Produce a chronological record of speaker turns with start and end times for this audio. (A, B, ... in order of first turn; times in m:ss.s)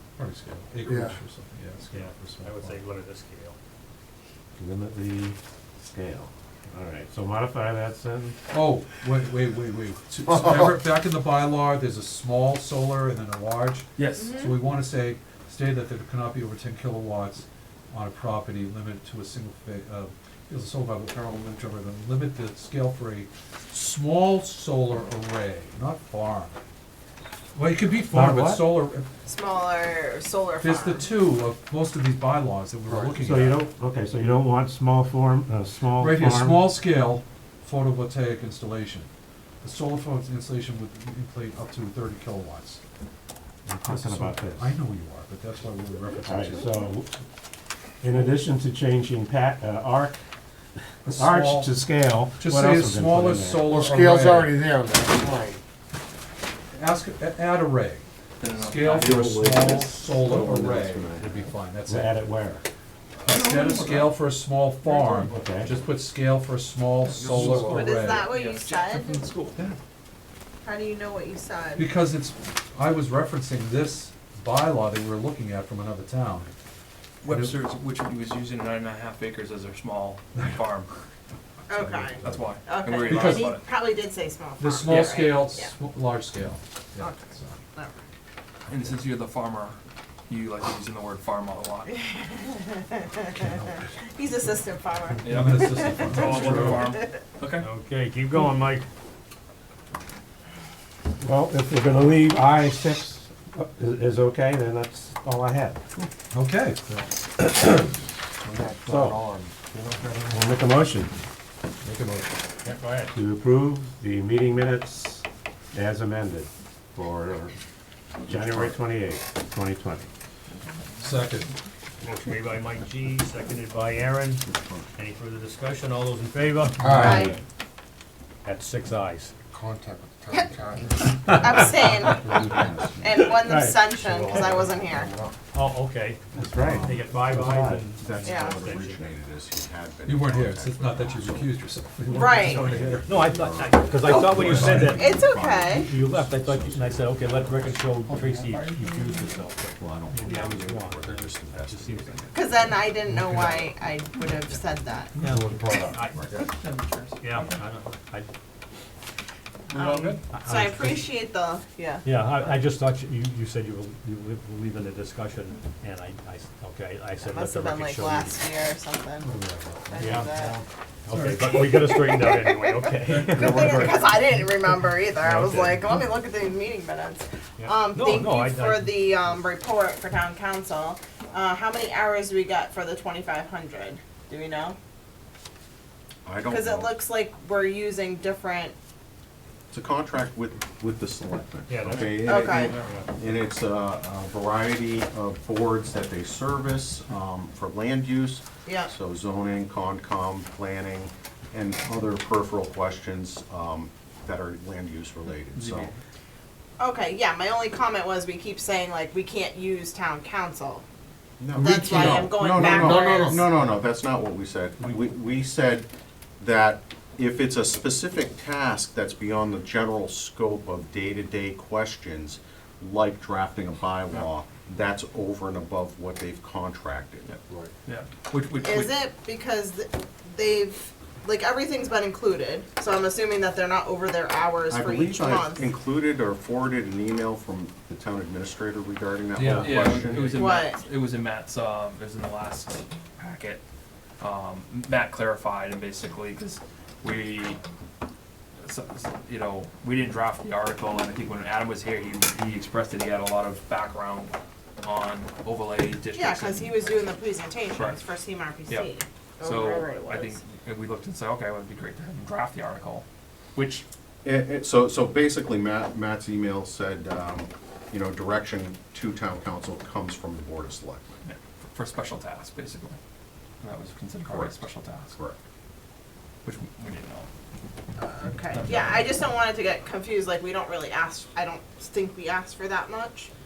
0:00.2-0:02.8 A
0:00.8-0:01.2 B
0:01.9-0:03.6 C
0:04.6-0:08.4 D
0:08.5-0:26.6 A
0:14.0-0:14.4 E
0:14.2-0:14.6 F
0:27.5-0:29.0 A
0:28.1-0:28.8 D
0:29.2-0:31.1 F
0:30.6-0:33.6 A
0:32.9-0:33.3 B
0:33.2-0:36.7 D
0:36.0-0:39.1 A
0:39.6-0:42.8 A
0:43.6-0:44.7 D
0:43.8-0:46.9 A
0:46.2-0:47.1 D
0:48.0-0:50.2 D
0:51.0-0:51.9 A
0:51.0-0:53.8 D
0:52.4-0:54.6 A
0:53.6-0:55.6 B
0:56.7-1:02.2 A
0:58.4-0:59.2 E
1:00.3-1:00.7 D
1:01.9-1:02.6 D
1:03.2-1:08.3 A
1:03.3-1:04.2 E
1:05.3-1:05.8 D
1:07.0-1:09.6 E
1:07.2-1:07.6 B
1:07.7-1:09.2 F
1:10.6-1:11.9 F
1:11.8-1:16.5 A
1:17.2-1:20.9 E
1:17.2-1:17.6 A
1:21.7-1:25.7 F
1:21.9-1:22.5 A
1:22.2-1:23.6 E
1:23.0-1:23.5 A
1:24.6-1:27.6 A
1:24.8-1:25.2 E
1:27.0-1:28.0 F
1:28.7-1:29.8 E
1:30.3-1:31.9 E
1:31.9-1:37.1 F
1:33.3-1:33.8 A
1:35.2-1:37.7 E
1:35.2-1:36.9 A
1:36.4-1:36.9 C
1:37.6-1:38.8 C
1:41.2-1:45.8 D
1:46.3-1:46.9 A
1:48.4-1:50.5 B
1:48.8-1:49.2 D
1:50.3-1:51.1 D
1:51.8-1:52.3 D
1:52.6-1:53.1 C
1:53.1-1:57.5 D
1:58.2-2:00.1 D
1:58.3-1:58.7 G
2:00.5-2:01.0 E
2:01.0-2:01.5 A
2:02.0-2:07.2 C
2:04.5-2:04.8 G
2:06.8-2:07.3 B
2:06.9-2:07.4 F
2:06.9-2:07.3 D
2:08.4-2:09.3 C
2:09.5-2:12.8 B
2:11.3-2:15.1 F
2:12.6-2:13.0 G
2:13.4-2:14.0 C
2:13.9-2:15.4 B
2:15.5-2:19.2 C
2:16.3-2:17.9 D
2:16.6-2:16.9 A
2:18.0-2:21.6 G
2:18.2-2:18.6 F
2:20.0-2:23.4 A
2:22.0-2:32.4 C
2:22.1-2:22.7 F
2:22.5-2:28.0 G
2:24.0-2:25.4 A
2:24.8-2:25.9 F
2:28.1-2:28.8 A
2:29.6-2:30.3 A
2:30.1-2:32.4 G
2:32.3-2:35.1 F
2:35.2-2:36.3 C
2:35.2-2:36.4 B
2:36.3-2:37.6 E
2:37.2-2:38.3 C
2:39.7-2:40.2 E
2:39.7-2:42.1 F
2:40.3-2:41.1 C
2:42.0-2:48.4 C
2:47.2-2:49.3 F
2:49.3-2:50.5 C
2:49.9-2:50.6 F
2:50.0-2:50.6 D
2:51.0-2:53.9 C
2:51.1-2:51.6 A
2:51.4-3:04.8 F
2:53.1-2:53.7 A
2:53.6-2:54.0 D
2:55.2-2:56.0 C
2:57.6-2:59.4 C
3:06.2-3:06.9 G
3:06.5-3:08.7 F
3:09.7-3:25.9 G
3:11.7-3:13.1 C
3:12.2-3:12.8 F
3:18.6-3:18.9 F
3:25.5-3:26.0 E
3:26.8-3:30.8 F
3:31.4-3:35.9 G
3:31.6-3:33.5 B
3:31.6-3:33.4 F
3:36.4-3:47.3 G
3:47.2-3:48.9 E
3:48.6-3:55.7 F
3:54.7-4:00.4 G
3:59.4-4:03.6 E
4:00.3-4:00.8 F
4:04.2-4:07.6 E
4:08.6-4:16.8 E
4:16.1-4:20.4 F
4:17.7-4:18.0 E
4:19.4-4:23.8 E
4:24.2-4:31.1 G
4:31.2-4:33.0 E
4:33.6-4:35.1 E
4:34.2-4:34.6 G
4:36.4-4:37.3 E
4:38.0-4:43.3 F
4:38.5-4:39.1 E